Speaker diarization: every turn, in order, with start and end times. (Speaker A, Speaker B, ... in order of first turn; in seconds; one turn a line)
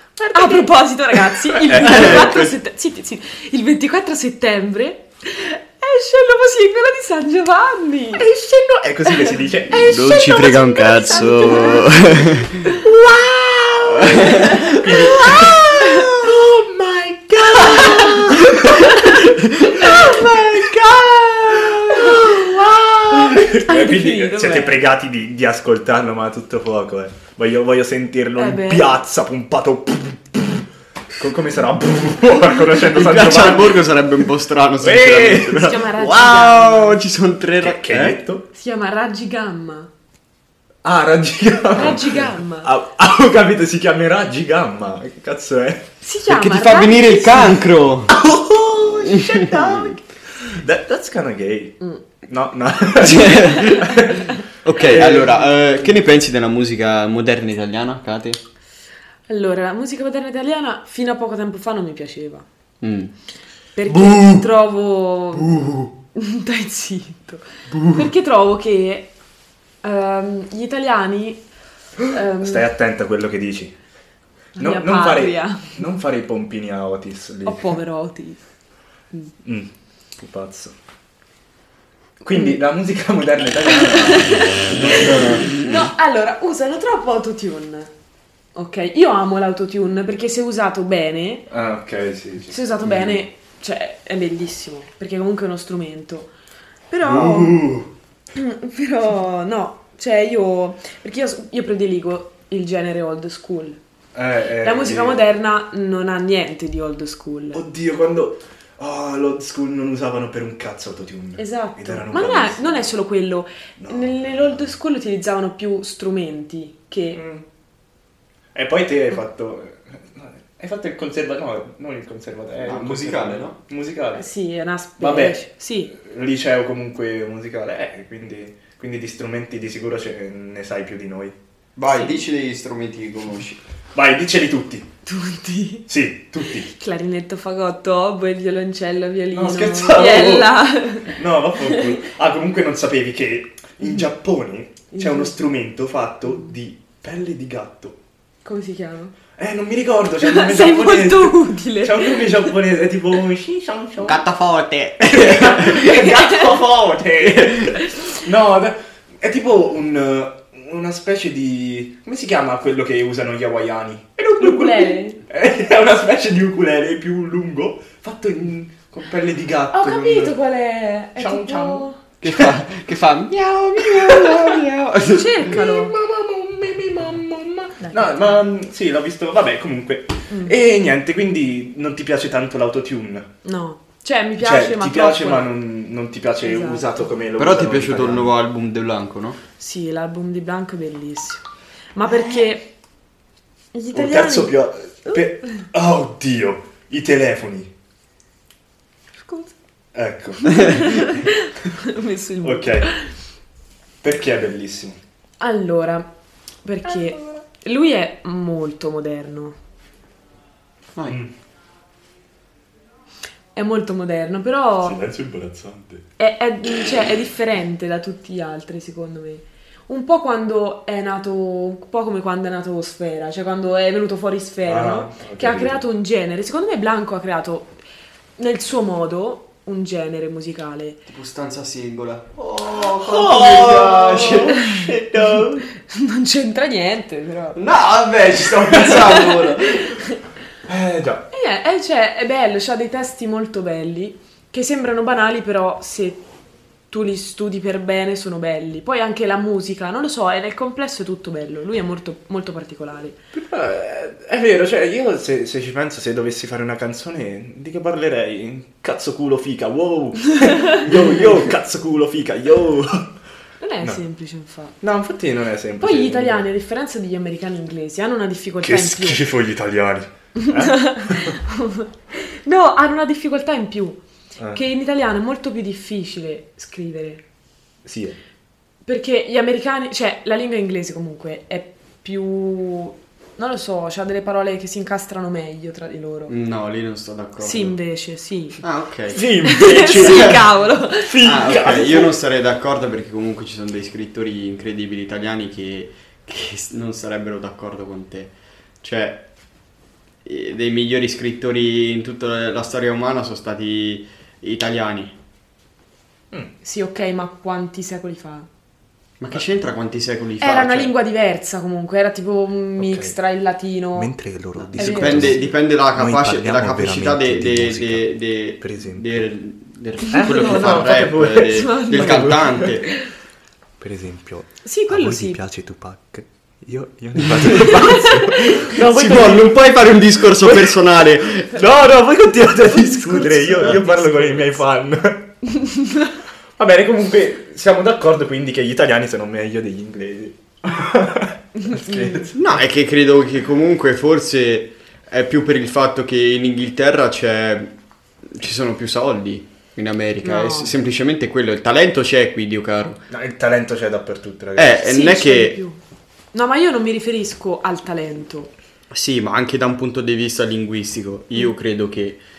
Speaker A: 0.2-0.7
Speaker B: 0.3-8.3
Speaker A: 1.5-2.4
Speaker C: 1.7-2.5
Speaker A: 8.2-10.3
Speaker B: 9.1-12.8
Speaker C: 9.9-12.7
Speaker A: 12.7-33.9
Speaker C: 14.0-14.8
Speaker B: 14.1-15.3
Speaker B: 17.7-19.1
Speaker C: 19.4-20.6
Speaker B: 21.9-22.3
Speaker B: 23.5-24.8
Speaker B: 28.4-28.9
Speaker C: 32.8-38.2
Speaker A: 34.8-35.9
Speaker B: 35.5-37.0
Speaker A: 37.6-38.5
Speaker B: 38.5-39.9
Speaker A: 40.8-45.9
Speaker B: 41.7-42.7
Speaker B: 46.0-47.7
Speaker C: 46.3-48.2
Speaker A: 48.1-55.9
Speaker C: 49.1-50.0
Speaker C: 53.0-54.1
Speaker C: 54.6-58.4
Speaker B: 59.3-62.4
Speaker C: 62.8-63.1
Speaker B: 63.8-69.1
Speaker C: 63.9-64.4
Speaker C: 65.3-65.9
Speaker B: 69.8-71.4
Speaker B: 72.1-72.7
Speaker A: 72.4-73.7
Speaker B: 74.6-75.8
Speaker A: 74.6-77.8
Speaker B: 77.5-78.4
Speaker A: 79.4-80.8
Speaker A: 82.2-85.6
Speaker B: 83.7-87.9
Speaker B: 88.5-91.5
Speaker A: 91.5-93.2
Speaker B: 92.5-96.3
Speaker B: 96.9-97.7
Speaker A: 97.0-97.9
Speaker B: 98.3-103.8
Speaker A: 104.2-105.2
Speaker B: 104.6-107.6
Speaker A: 107.5-112.9
Speaker B: 111.4-117.2
Speaker A: 113.8-114.7
Speaker A: 117.1-117.4
Speaker A: 118.5-124.2
Speaker C: 122.6-123.6
Speaker B: 124.2-125.9
Speaker A: 125.0-131.3
Speaker C: 131.8-133.6
Speaker B: 131.9-132.2
Speaker A: 133.9-134.9
Speaker B: 135.1-135.9
Speaker A: 135.9-136.7
Speaker B: 136.7-141.2
Speaker A: 139.3-140.5
Speaker A: 141.1-148.0
Speaker B: 144.9-145.4
Speaker B: 148.4-149.1
Speaker A: 149.4-154.2
Speaker B: 150.2-152.5
Speaker C: 154.0-155.9
Speaker A: 155.0-170.3
Speaker B: 155.8-156.5
Speaker C: 157.2-157.7
Speaker B: 157.8-158.2
Speaker B: 164.4-165.2
Speaker B: 169.7-172.0
Speaker A: 171.2-172.6
Speaker C: 172.2-175.6
Speaker A: 173.8-174.6
Speaker B: 175.0-175.9
Speaker A: 175.5-183.3
Speaker B: 177.8-178.4
Speaker B: 180.3-180.5
Speaker B: 183.4-185.5
Speaker A: 184.4-188.3
Speaker B: 186.4-187.1
Speaker C: 187.4-189.4
Speaker B: 189.6-192.7
Speaker B: 193.7-195.2
Speaker A: 193.9-197.7
Speaker B: 199.2-199.5
Speaker A: 199.9-201.3
Speaker B: 200.4-203.1
Speaker A: 202.4-202.9
Speaker A: 204.0-205.0
Speaker B: 205.4-206.1
Speaker B: 206.6-209.6
Speaker A: 211.1-211.3
Speaker B: 213.5-215.0
Speaker A: 214.8-216.1
Speaker B: 216.2-227.8
Speaker A: 224.7-225.8
Speaker B: 228.4-231.0
Speaker C: 231.1-235.6
Speaker A: 233.0-235.5
Speaker B: 234.5-237.6
Speaker C: 237.5-240.0
Speaker B: 238.7-240.2
Speaker A: 240.7-241.3
Speaker B: 241.3-246.2
Speaker B: 246.9-253.2
Speaker A: 253.3-263.1
Speaker B: 263.6-264.8
Speaker A: 264.8-266.4
Speaker B: 265.8-269.2
Speaker A: 268.6-271.4
Speaker B: 270.4-274.0
Speaker B: 274.5-277.2
Speaker A: 277.9-278.2
Speaker B: 278.9-286.4
Speaker C: 286.3-287.8
Speaker B: 287.4-288.6
Speaker C: 288.6-289.2
Speaker A: 289.1-292.1
Speaker B: 289.4-291.3
Speaker C: 290.0-290.4
Speaker C: 291.2-299.3
Speaker C: 300.2-305.1
Speaker B: 306.6-308.5
Speaker C: 309.2-310.9
Speaker B: 310.4-314.1
Speaker A: 312.8-313.1
Speaker A: 313.9-319.3
Speaker C: 314.6-322.9
Speaker B: 314.8-315.5
Speaker A: 320.0-322.8
Speaker B: 321.5-323.1
Speaker A: 323.8-329.6
Speaker B: 324.6-325.4
Speaker C: 327.2-327.7
Speaker B: 327.7-328.6
Speaker C: 328.6-331.6
Speaker A: 330.1-330.8
Speaker A: 331.5-335.4
Speaker B: 332.6-334.6
Speaker B: 335.6-336.1
Speaker A: 336.6-342.6
Speaker B: 341.7-342.2
Speaker C: 342.4-347.7
Speaker C: 348.2-353.0
Speaker B: 350.2-350.7
Speaker A: 353.1-354.8
Speaker C: 354.6-355.6
Speaker B: 354.8-355.8
Speaker B: 356.3-358.5
Speaker C: 358.9-362.2